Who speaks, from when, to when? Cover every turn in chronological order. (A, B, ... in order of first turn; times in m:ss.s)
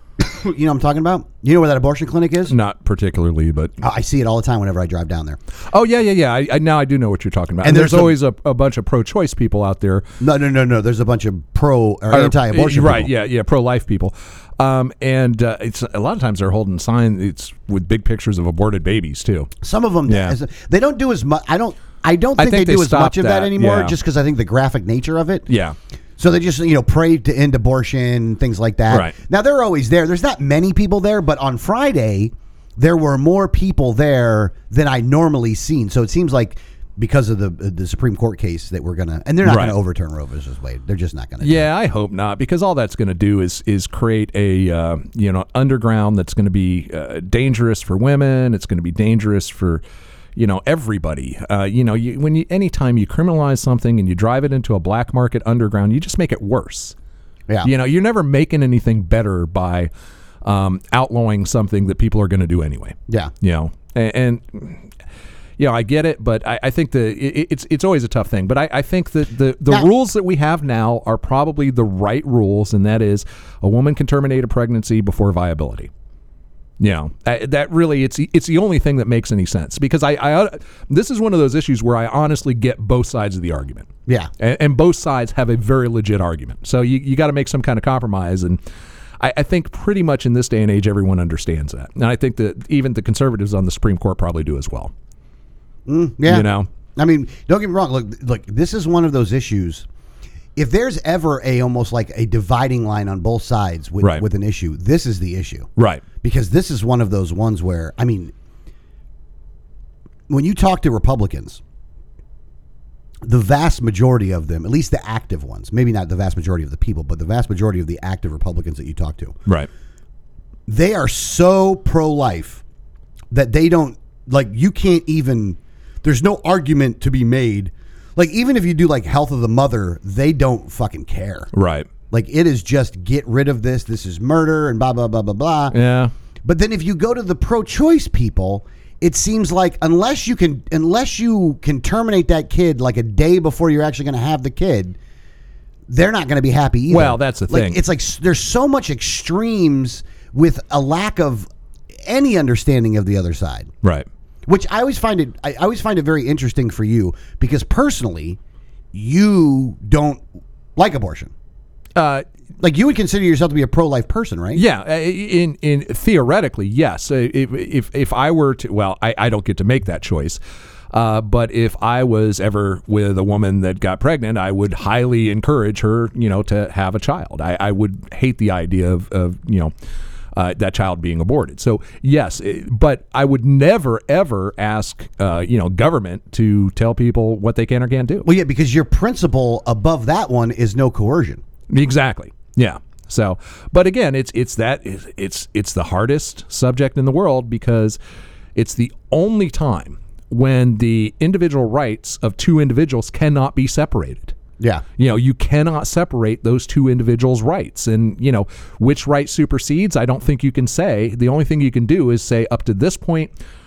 0:00.2-0:02.6 A
0:02.5-0:03.7 B
0:03.8-0:05.4 A
0:05.7-0:10.1 B
0:07.6-0:08.2 A
0:10.2-0:13.1 A
0:12.1-0:19.5 B
0:19.6-0:25.5 A
0:20.1-0:20.4 B
0:22.4-0:24.0 B
0:25.5-0:25.8 B
0:26.2-0:41.7 A
0:28.9-0:29.2 B
0:39.4-0:39.8 B
0:41.4-0:49.8 B
0:50.4-0:57.0 B
0:57.6-0:59.9 B
1:00.4-1:04.9 B
1:03.1-1:03.3 A
1:05.6-1:15.9 B
1:16.8-1:28.6 B
1:29.2-1:34.9 B
1:35.9-1:39.9 A
1:36.3-1:36.7 B
1:40.6-1:45.7 A
1:44.0-1:44.2 B
1:45.8-1:46.0 B
1:46.2-1:48.3 A
1:50.3-1:51.6 A
1:53.2-1:59.4 A
2:00.7-2:02.6 A
2:03.3-2:11.5 A
2:11.5-2:11.9 B
2:12.1-2:15.8 A
2:15.7-2:16.1 B
2:16.4-2:25.0 A
2:25.9-2:31.5 A
2:26.9-2:27.8 B
2:32.0-2:33.7 A
2:34.5-2:38.4 A
2:38.9-2:40.2 A
2:40.8-2:41.3 A
2:42.0-2:42.2 B
2:42.6-2:44.6 A
2:44.5-2:50.4 B
2:50.9-2:59.7 B
3:00.4-3:08.3 B
3:08.2-3:11.4 A
3:11.7-3:18.0 B
3:18.6-3:24.4 B
3:24.6-3:24.8 A
3:25.0-3:33.3 B